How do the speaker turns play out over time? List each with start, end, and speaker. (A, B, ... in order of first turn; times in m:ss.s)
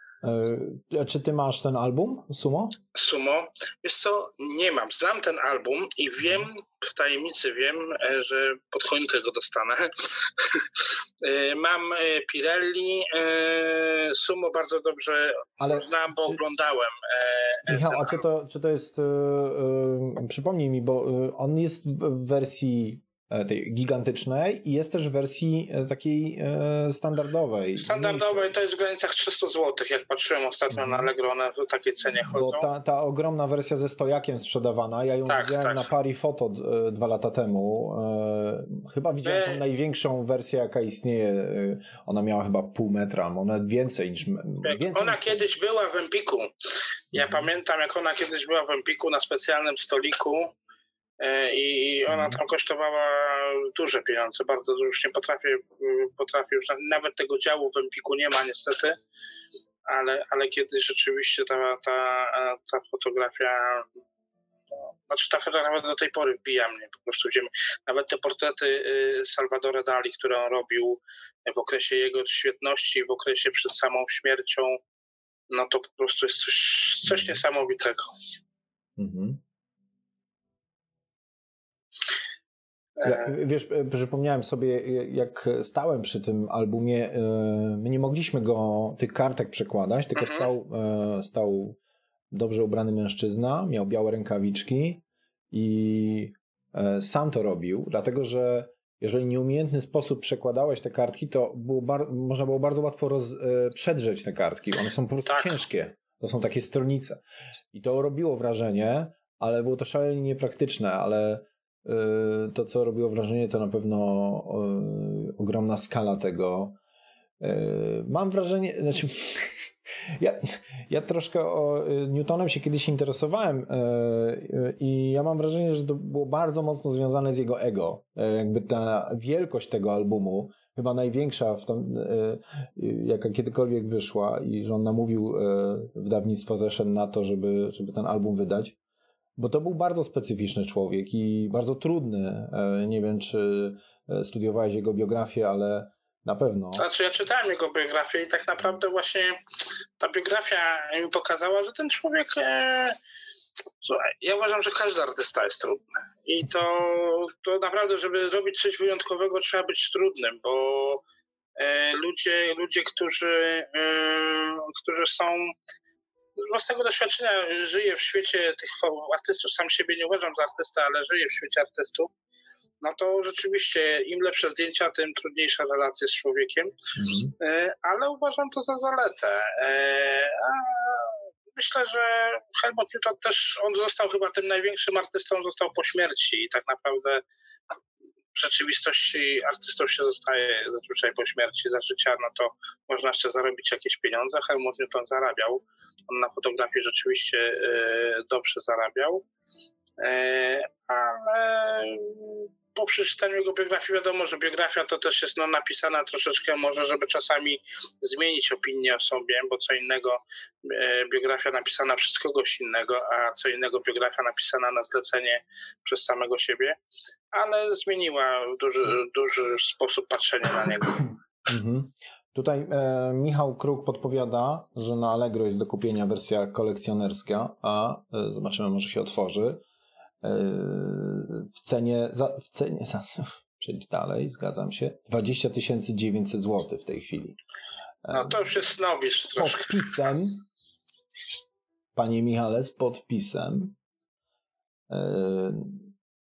0:00.2-0:02.8 A
0:03.0-0:18.2 B
0:15.6-0:16.4 A
0:17.7-0:28.5 A
0:27.8-0:32.7 B
0:30.7-0:31.1 A
0:32.3-0:45.4 A
0:35.3-0:35.9 B
0:39.2-0:39.6 B
0:44.6-0:46.5 B
0:47.1-0:47.5 A
0:47.1-0:50.5 B
0:51.2-0:59.0 B
0:52.1-0:52.4 A
0:59.9-1:03.9 B
1:05.1-1:14.8 B
1:15.5-1:18.1 B
1:17.0-1:17.4 A
1:19.0-1:19.4 A
1:23.0-1:23.3 B
1:23.0-1:31.8 A
1:30.2-1:30.5 B
1:32.3-1:47.2 A
1:45.3-1:45.6 B
1:47.7-1:56.8 A
1:57.4-1:59.7 A
2:00.2-2:18.8 A
2:19.4-2:26.9 A
2:26.8-2:29.4 B
2:30.0-2:33.0 B
2:33.8-2:41.0 B
2:41.6-2:45.5 B
2:46.4-2:52.1 B
2:52.8-2:56.8 B
2:57.0-2:57.3 A
2:57.4-3:07.2 B
3:08.3-3:19.2 B
3:20.0-3:36.8 B
3:37.3-3:41.0 B
3:41.5-3:49.6 A
3:50.2-3:57.4 A
3:58.0-3:58.4 A
3:58.1-3:59.8 B
3:59.4-4:00.4 A
4:02.0-4:03.8 A
4:04.9-4:05.9 A